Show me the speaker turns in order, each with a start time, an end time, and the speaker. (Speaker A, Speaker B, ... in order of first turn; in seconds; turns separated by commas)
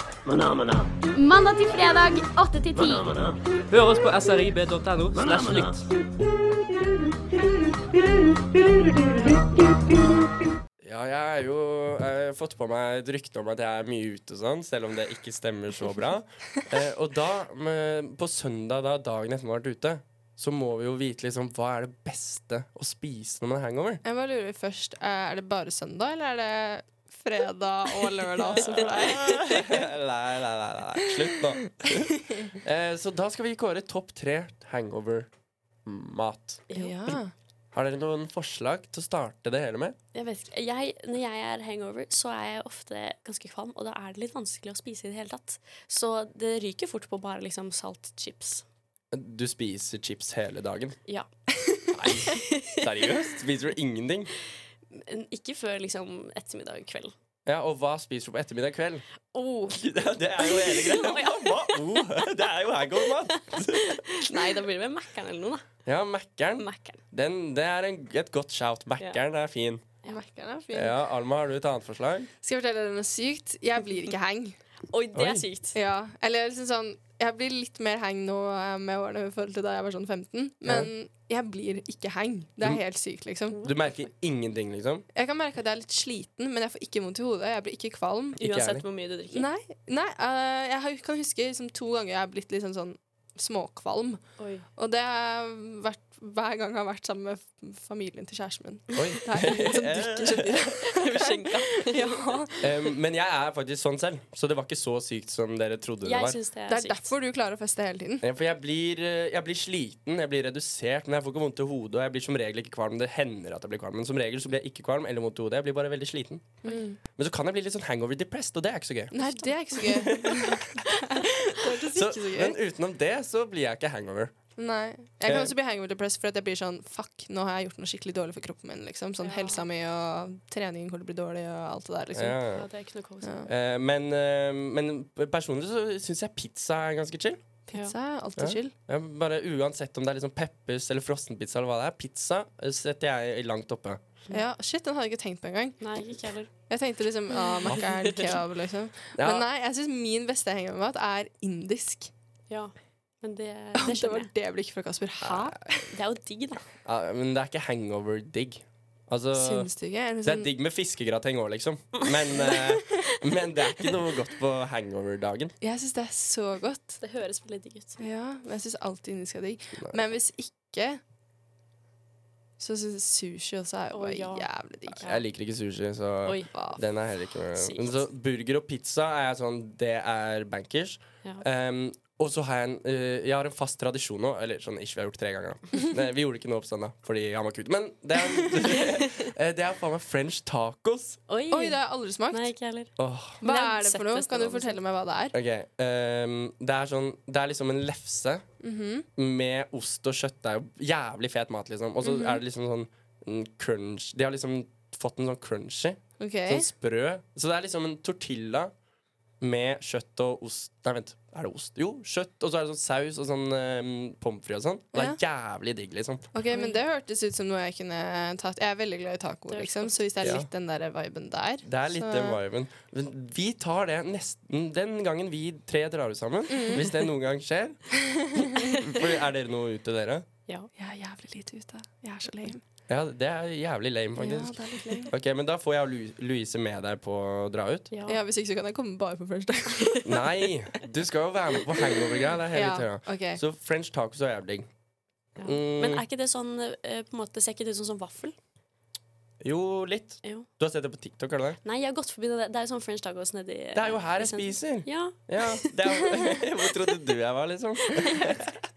Speaker A: 1.1-3.2, Speaker B: 3.7-5.9, Speaker C: 10.8-24.0, Speaker D: 24.0-29.8, Speaker E: 28.5-29.0, Speaker C: 28.6-35.3, Speaker D: 31.3-32.5, Speaker C: 35.9-36.6, Speaker E: 36.7-37.0, Speaker D: 36.7-37.3, Speaker C: 37.7-40.0, Speaker E: 40.1-48.6, Speaker C: 49.1-51.0, Speaker E: 51.1-53.1, Speaker C: 51.9-54.3, Speaker E: 54.9-57.1, Speaker C: 57.5-59.0, Speaker E: 59.3-62.3, Speaker C: 59.7-64.0, Speaker E: 62.9-65.7, Speaker C: 65.9-69.8, Speaker E: 66.6-67.0, Speaker D: 70.1-71.0, Speaker C: 70.7-72.3, Speaker D: 72.4-74.6, Speaker E: 74.9-75.8, Speaker C: 75.1-75.5, Speaker D: 75.7-83.6, Speaker C: 80.7-80.9, Speaker C: 83.6-85.0, Speaker D: 85.1-88.4, Speaker C: 88.4-88.8, Speaker E: 88.4-89.5, Speaker D: 89.3-94.2, Speaker E: 94.4-94.7, Speaker D: 94.8-102.7, Speaker C: 98.9-100.7, Speaker E: 100.8-102.4, Speaker C: 102.6-106.4, Speaker E: 106.0-107.1, Speaker D: 106.7-108.2, Speaker C: 108.2-119.1, Speaker D: 116.6-117.0, Speaker D: 119.1-122.6, Speaker C: 121.9-124.3, Speaker D: 124.6-132.4, Speaker C: 125.2-125.5, Speaker E: 129.2-129.7, Speaker C: 132.2-132.7, Speaker E: 132.5-133.5, Speaker D: 133.2-133.5, Speaker C: 133.5-137.4, Speaker D: 137.7-138.7, Speaker C: 138.4-144.0, Speaker D: 144.3-145.8, Speaker E: 145.8-146.5, Speaker D: 146.7-152.1, Speaker E: 147.4-148.2, Speaker C: 149.2-149.5, Speaker E: 152.5-154.3, Speaker D: 153.8-155.9, Speaker C: 155.2-155.6, Speaker E: 155.9-156.6, Speaker C: 156.8-159.7, Speaker D: 159.3-160.5, Speaker C: 160.2-165.5, Speaker E: 162.1-162.6, Speaker D: 165.6-167.0, Speaker E: 167.0-168.0, Speaker D: 168.0-171.0, Speaker D: 172.6-175.0, Speaker E: 173.9-174.5, Speaker C: 175.0-191.2, Speaker E: 176.2-176.5, Speaker E: 177.6-178.1, Speaker E: 188.7-189.3, Speaker E: 191.3-194.8, Speaker D: 191.5-192.5, Speaker C: 193.0-193.4, Speaker D: 193.4-195.4, Speaker C: 195.3-198.4, Speaker D: 198.6-199.1, Speaker C: 199.2-208.7, Speaker D: 202.0-202.4, Speaker D: 206.2-206.7, Speaker C: 209.4-216.3, Speaker D: 214.9-215.2, Speaker D: 216.3-222.4, Speaker E: 216.5-216.8, Speaker E: 219.5-220.4, Speaker C: 220.2-220.5, Speaker C: 221.6-230.2, Speaker D: 226.5-226.9, Speaker D: 227.9-228.7, Speaker D: 230.8-232.6, Speaker C: 232.9-237.9, Speaker D: 234.2-235.1, Speaker E: 237.9-238.2, Speaker D: 238.1-240.2, Speaker C: 240.1-244.7, Speaker D: 242.5-243.4, Speaker E: 245.4-248.3, Speaker C: 245.4-246.0, Speaker C: 249.4-251.6, Speaker E: 251.6-257.0, Speaker C: 253.8-258.6, Speaker E: 257.9-258.4